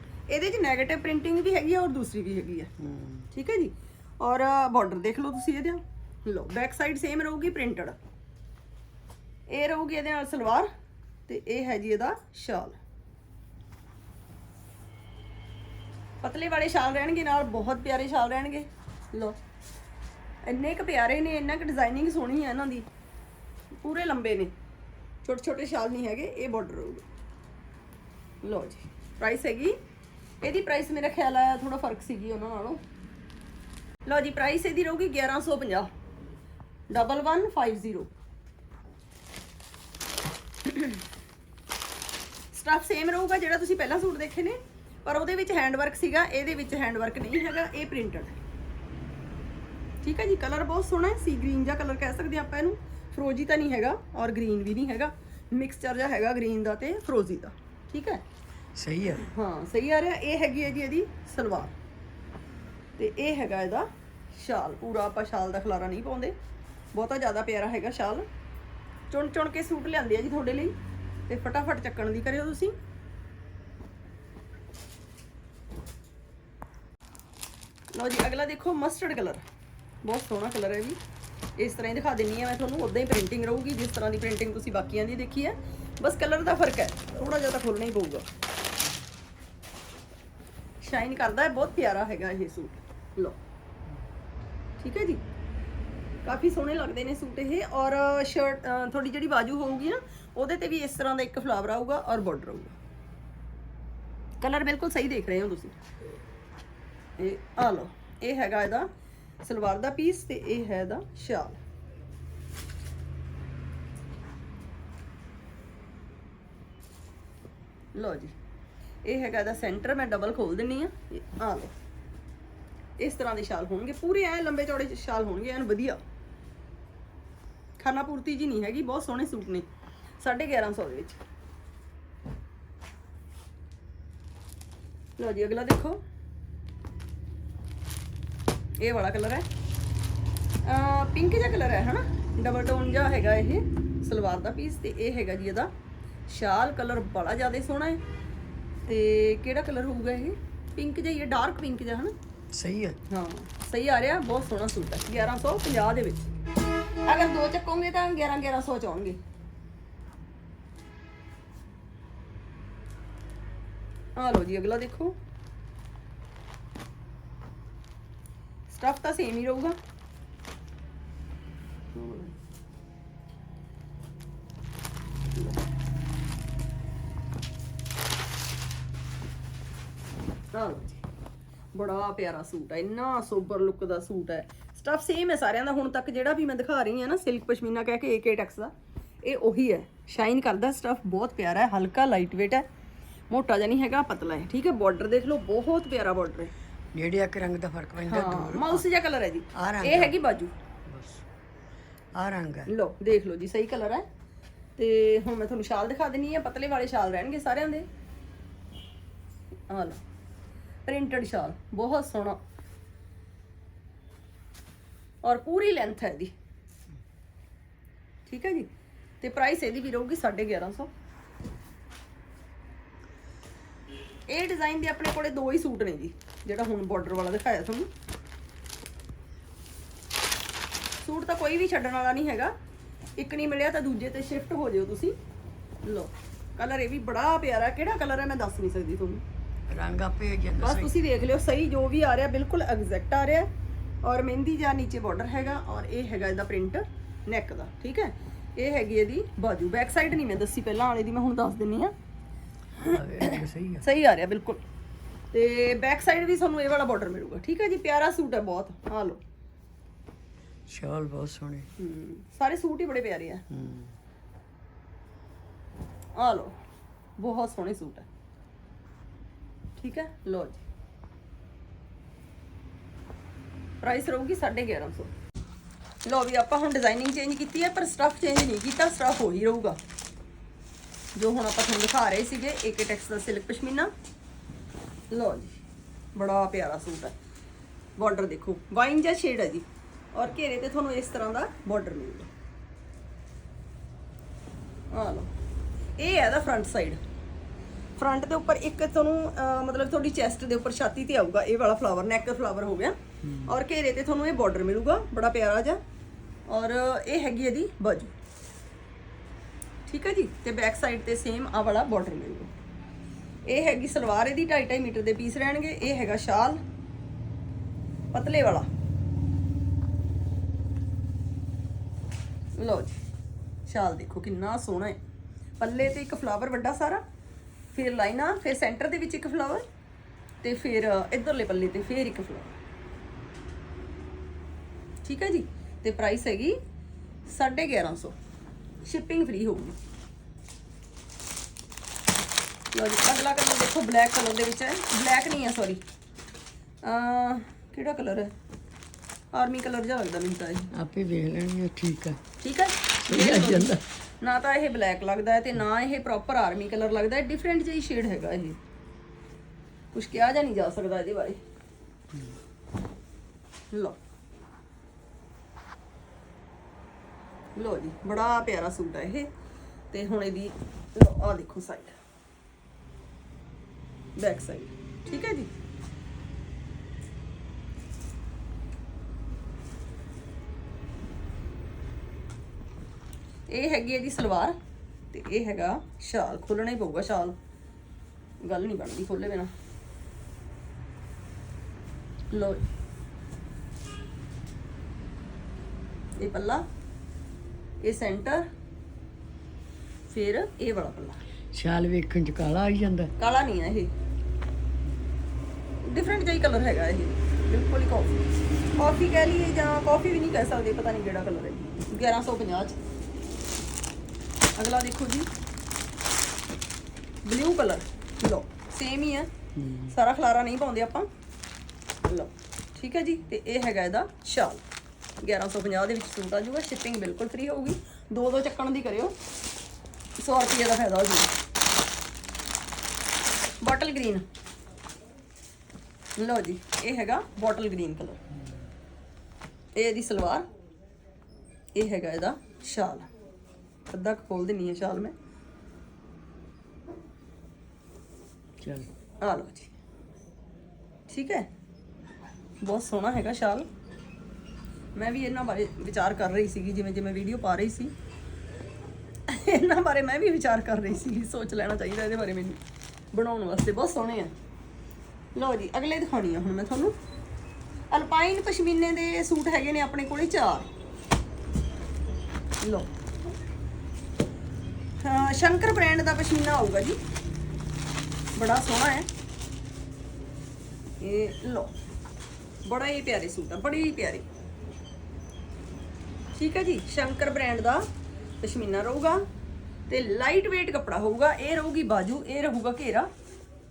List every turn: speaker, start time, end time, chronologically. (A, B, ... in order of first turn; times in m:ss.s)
0:00.3-0:02.7 A
0:02.8-0:03.3 B
0:03.3-0:08.0 A
0:09.5-0:10.7 A
0:11.3-0:12.8 A
0:16.2-0:19.4 A
0:20.4-0:22.9 A
0:23.8-0:24.5 A
0:25.2-0:27.0 A
0:28.4-0:29.8 A
0:30.4-0:32.8 A
0:34.0-0:35.9 A
0:36.9-0:38.1 A
0:40.6-0:41.0 A
0:42.5-0:48.4 A
0:50.0-0:58.2 A
0:58.8-0:59.3 B
0:59.2-1:01.7 A
1:03.0-1:06.3 A
1:06.9-1:08.2 A
1:09.1-1:10.7 A
1:11.3-1:12.7 A
1:17.9-1:19.4 A
1:20.0-1:21.0 A
1:21.6-1:28.2 A
1:30.8-1:33.4 A
1:34.8-1:35.2 A
1:36.2-1:42.8 A
1:44.4-1:45.8 A
1:47.2-1:48.9 A
1:49.4-1:51.6 A
1:57.9-1:58.3 A
1:59.0-2:01.7 A
2:03.0-2:06.0 A
2:07.8-2:09.6 A
2:10.2-2:11.2 A
2:15.2-2:16.0 A
2:18.8-2:19.4 A
2:20.6-2:25.7 A
2:26.3-2:28.0 A
2:28.9-2:32.1 A
2:32.5-2:33.0 B
2:33.1-2:36.3 A
2:37.0-2:39.2 A
2:44.2-2:45.2 A
2:48.7-2:49.8 A
2:51.9-2:52.3 A
2:55.3-2:55.6 A
3:00.5-3:01.0 A
3:01.7-3:08.7 A
3:09.2-3:12.6 A
3:13.3-3:16.5 A
3:16.9-3:18.8 B
3:18.1-3:20.5 A
3:19.5-3:20.2 B
3:20.9-3:21.2 B
3:22.1-3:22.7 B
3:22.7-3:24.0 A
3:24.8-3:27.9 A
3:29.7-3:30.0 A
3:30.8-3:32.4 A
3:35.2-3:36.3 A
3:38.3-3:38.7 A
3:39.2-3:40.9 A
3:44.3-3:47.9 A
3:51.0-3:52.5 A
3:53.2-3:55.2 A
3:55.8-3:59.2 A
3:59.7-4:00.9 B
4:00.6-4:03.5 A
4:04.0-4:11.9 A
4:12.8-4:13.8 B
4:12.8-4:14.6 A
4:15.3-4:19.2 A
4:20.7-4:21.7 B
4:21.8-4:23.4 A
4:23.5-4:24.0 B
4:26.2-4:26.5 A
4:27.2-4:28.1 A
4:29.8-4:30.6 A
4:33.8-4:35.1 A
4:36.0-4:39.8 A
4:41.2-4:43.9 A
4:45.1-4:45.5 A
4:46.1-4:47.2 A
4:48.0-4:52.3 A
4:54.9-4:55.3 A
4:56.0-4:57.0 A
4:58.0-5:05.8 A
5:03.2-5:03.5 B
5:06.5-5:08.1 A
5:09.9-5:12.5 A
5:13.5-5:16.6 A
5:18.1-5:18.7 A
5:22.6-5:23.0 A
5:23.6-5:25.0 A
5:25.6-5:27.0 A
5:27.7-5:29.6 A
5:30.4-5:32.6 A
5:35.0-5:36.6 A
5:37.3-5:38.2 A
5:38.8-5:39.8 A
5:42.7-5:45.8 A
5:46.8-5:48.3 A
5:49.3-5:50.7 A
5:50.7-5:52.2 B
5:52.4-5:58.6 A
5:53.1-5:53.8 B
5:59.9-6:01.4 A
6:03.7-6:04.0 A
6:07.6-6:09.3 A
6:09.9-6:12.0 A
6:14.2-6:15.5 A
6:23.5-6:24.6 A
6:25.1-6:27.4 A
6:28.4-6:29.5 A
6:32.3-6:32.6 A
6:36.2-6:36.6 A
6:37.8-6:38.4 A
6:40.1-6:41.2 A
6:41.5-6:43.1 B
6:43.2-6:43.9 A
6:45.8-6:52.8 A
6:54.6-6:55.3 A
6:57.2-6:59.3 A
6:59.6-6:59.9 B
6:59.9-7:01.1 A
7:02.0-7:04.6 A
7:05.2-7:09.1 A
7:10.2-7:11.3 A
7:13.6-7:14.2 A
7:16.2-7:18.2 A
7:18.3-7:18.7 B
7:19.8-7:20.4 A
7:21.7-7:23.1 A
7:23.9-7:25.1 A
7:28.6-7:28.9 B
7:29.2-7:29.7 A
7:31.1-7:31.5 A
7:32.6-7:33.7 A
7:35.0-7:37.9 A
7:39.3-7:42.6 A
7:43.1-7:44.3 A
7:45.4-7:47.0 A
7:47.9-7:50.7 A
7:52.6-7:52.9 A
7:55.0-7:57.0 A
7:58.4-7:59.1 A
8:01.0-8:01.7 A
8:02.6-8:04.3 A
8:06.4-8:07.9 A
8:08.4-8:09.2 A
8:09.9-8:13.1 A